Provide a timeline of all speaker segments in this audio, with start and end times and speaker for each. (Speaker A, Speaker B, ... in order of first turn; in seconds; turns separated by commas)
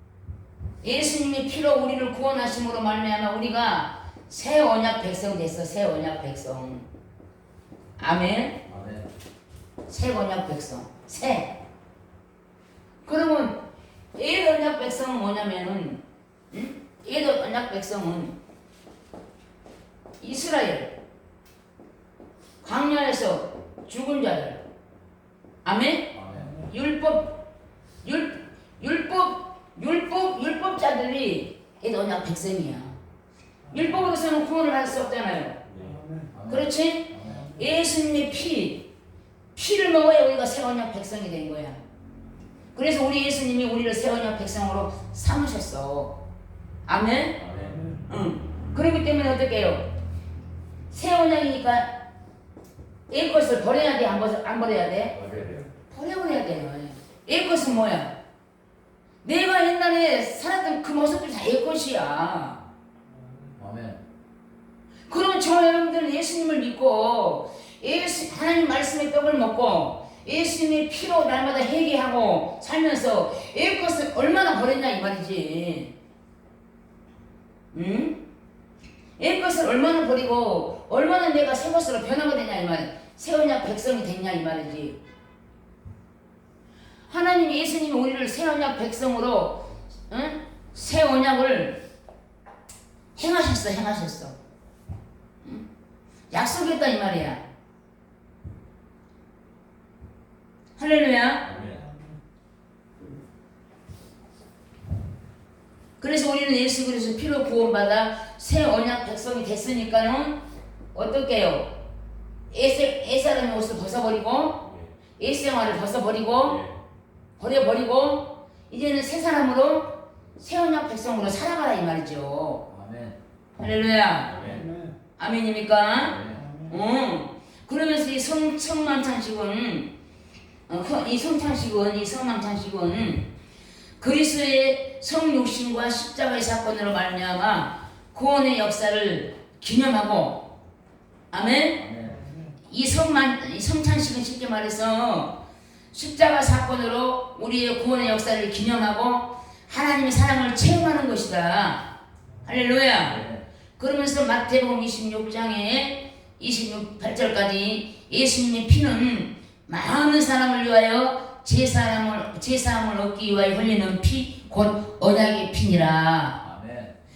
Speaker A: 0.8-6.9, Speaker A: 8.0-8.6, Speaker B: 8.7-9.1, Speaker A: 9.9-11.5, Speaker A: 13.0-13.6, Speaker A: 14.2-16.0, Speaker A: 16.5-18.3, Speaker A: 20.2-20.9, Speaker A: 22.6-24.6, Speaker A: 25.6-27.4, Speaker B: 26.1-26.7, Speaker A: 28.0-32.9, Speaker A: 33.7-35.6, Speaker C: 35.7-36.0, Speaker B: 36.3-37.5, Speaker A: 36.5-38.9, Speaker A: 39.5-41.8, Speaker A: 42.7-46.1, Speaker A: 46.9-47.4, Speaker B: 47.4-47.9, Speaker A: 48.1-49.8, Speaker A: 50.9-51.9, Speaker A: 53.1-55.1, Speaker C: 55.1-55.6, Speaker A: 55.9-58.1, Speaker A: 59.2-62.6, Speaker B: 63.5-64.0, Speaker A: 65.1-75.9, Speaker A: 77.7-78.2, Speaker A: 79.2-85.0, Speaker A: 87.1-91.8, Speaker A: 93.2-94.3, Speaker A: 96.3-97.4, Speaker A: 100.8-101.4, Speaker B: 101.4-101.9, Speaker C: 101.5-101.8, Speaker A: 106.0-110.4, Speaker A: 110.9-111.7, Speaker A: 112.5-114.6, Speaker C: 114.6-114.9, Speaker A: 115.2-116.6, Speaker C: 116.4-116.7, Speaker A: 117.4-122.6, Speaker B: 122.7-123.2, Speaker A: 123.6-124.6, Speaker C: 124.3-124.7, Speaker B: 124.4-124.7, Speaker A: 125.2-129.9, Speaker B: 126.0-126.5, Speaker A: 130.7-133.3, Speaker A: 134.0-140.5, Speaker A: 141.3-141.8, Speaker B: 141.7-142.2, Speaker A: 142.7-145.3, Speaker A: 145.9-151.8, Speaker A: 152.4-153.2, Speaker B: 153.1-153.4, Speaker A: 153.8-166.4, Speaker B: 166.4-166.9